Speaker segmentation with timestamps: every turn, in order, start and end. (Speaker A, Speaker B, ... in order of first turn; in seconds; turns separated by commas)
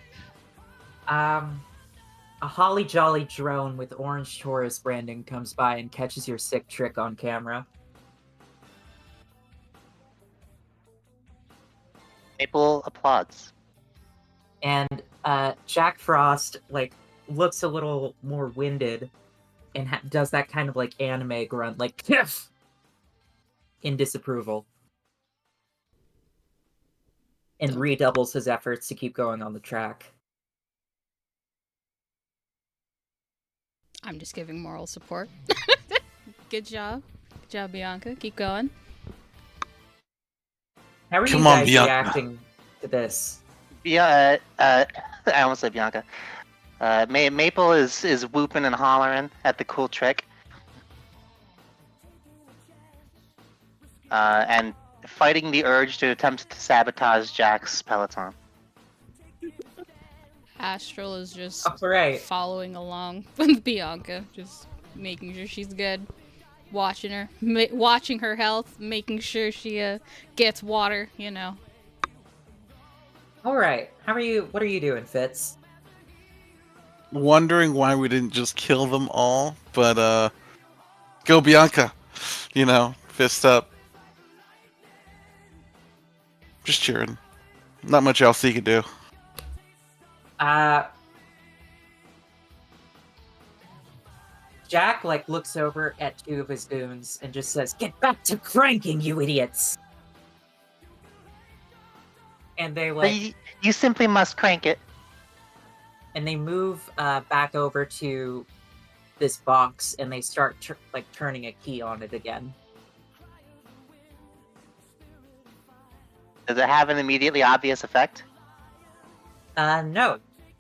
Speaker A: 1.1-1.7, Speaker A: 2.4-7.7, Speaker B: 12.4-13.5, Speaker A: 14.6-19.1, Speaker A: 19.8-22.5, Speaker A: 23.8-24.7, Speaker A: 27.6-30.1, Speaker C: 34.0-35.3, Speaker C: 36.5-38.7, Speaker A: 41.1-43.4, Speaker D: 41.3-42.2, Speaker B: 43.9-46.0, Speaker B: 46.8-50.3, Speaker B: 54.1-58.4, Speaker C: 60.6-66.1, Speaker A: 61.6-62.2, Speaker C: 66.7-71.6, Speaker A: 73.4-75.6, Speaker D: 77.1-80.3, Speaker D: 81.2-83.7, Speaker D: 86.6-87.2, Speaker D: 87.8-88.8, Speaker A: 90.4-90.9, Speaker A: 94.7-99.8, Speaker A: 102.6-103.2, Speaker B: 103.0-104.8, Speaker A: 106.1-108.5, Speaker A: 109.2-112.6, Speaker B: 116.5-118.2, Speaker A: 119.6-120.2